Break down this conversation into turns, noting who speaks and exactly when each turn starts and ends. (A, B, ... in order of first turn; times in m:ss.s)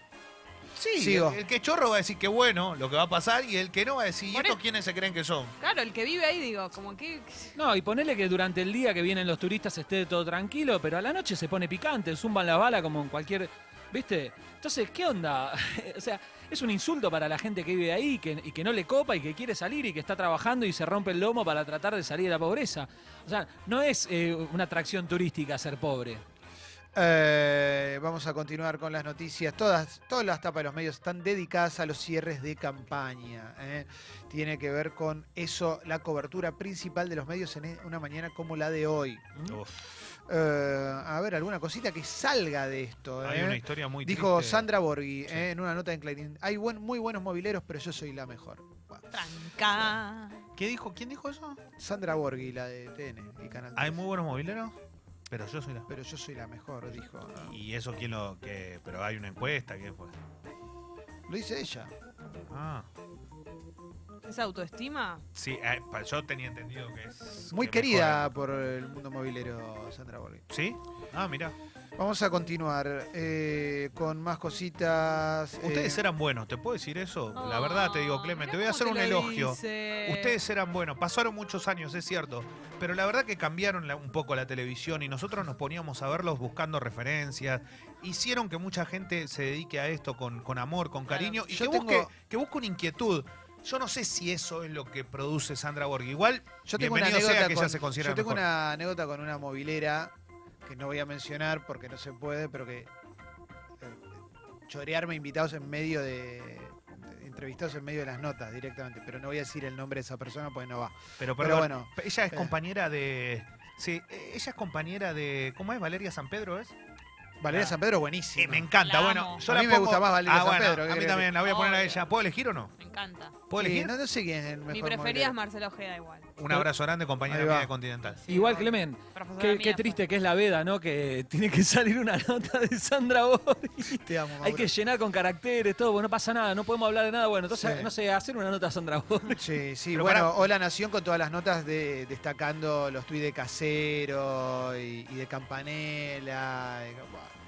0:00.8-0:05.6 A
0:01.0-0:01.4 B
0:04.3-0:04.6 C
0:05.6-0:07.6 C
0:07.6-0:26.2 D
0:27.0-0:39.5 B
0:39.5-0:39.7 A
0:40.3-0:49.2 B
0:43.2-0:44.7 A
0:49.1-0:50.4 C
0:50.6-0:51.6 A
0:51.8-0:54.0 B
0:53.8-0:54.8 A
0:55.3-0:55.9 A
0:55.9-0:57.6 B
0:57.4-1:00.2 A
1:01.3-1:01.9 B
1:02.5-1:02.9 A
1:04.2-1:05.2 C
1:05.4-1:08.3 A
1:07.5-1:10.4 B
1:10.5-1:11.6 A
1:12.0-1:16.0 B
1:15.6-1:38.4 A
1:17.4-1:20.4 C
1:31.1-1:31.4 C
1:31.5-1:32.1 B
1:36.6-1:40.1 B
1:40.6-1:42.9 B
1:43.8-1:44.1 B
1:44.7-1:52.5 B
1:51.2-1:56.8 A
1:57.4-1:58.7 B
1:57.5-1:57.8 A
1:58.4-2:02.8 A
1:58.8-1:59.4 C
1:59.4-2:01.3 B
2:01.4-2:02.1 C
2:02.8-2:03.4 C
2:03.5-2:03.9 A
2:03.6-2:05.4 B
2:04.7-2:06.3 C
2:06.4-2:08.2 A
2:07.3-2:07.7 B
2:08.2-2:10.0 C
2:08.3-2:19.5 D
2:14.0-2:14.7 B
2:17.5-2:17.9 B
2:19.4-2:27.4 B
2:19.9-2:20.5 A